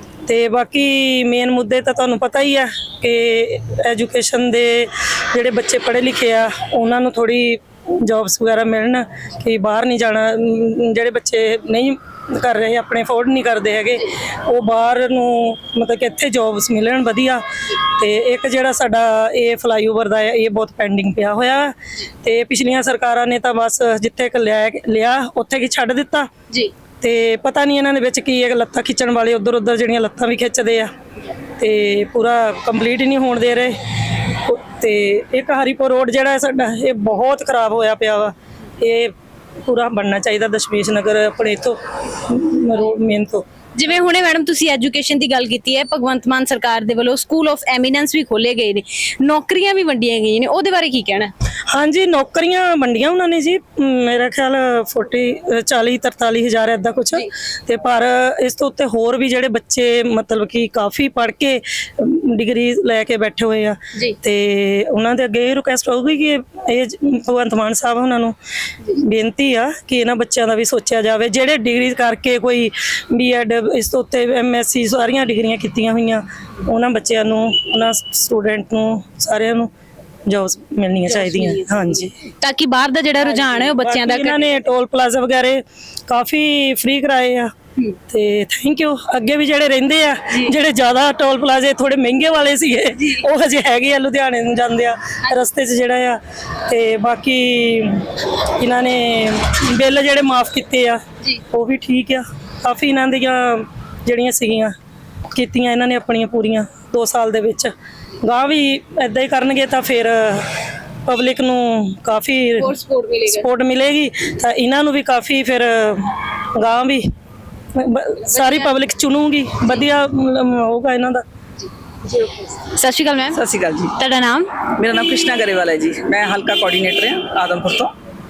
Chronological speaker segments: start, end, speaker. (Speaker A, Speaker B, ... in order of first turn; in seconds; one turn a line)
Speaker A: 0.3-26.3
Speaker A: 27.0-30.9
Speaker A: 31.6-33.8
Speaker A: 34.5-39.1
Speaker A: 39.7-43.5
Speaker B: 43.8-51.3
Speaker A: 51.7-68.4
Speaker A: 68.9-79.7
Speaker A: 80.3-82.1
Speaker B: 81.1-84.5
Speaker A: 83.2-87.5
Speaker A: 88.1-104.7
Speaker B: 93.0-93.2
Speaker A: 105.3-107.7
Speaker A: 108.2-110.5
Speaker A: 111.1-112.7
Speaker B: 112.6-113.5
Speaker A: 113.3-117.1
Speaker A: 117.8-121.2
Speaker B: 118.3-118.7
Speaker B: 122.1-123.4
Speaker C: 123.3-124.0
Speaker B: 124.0-124.5
Speaker C: 124.8-127.9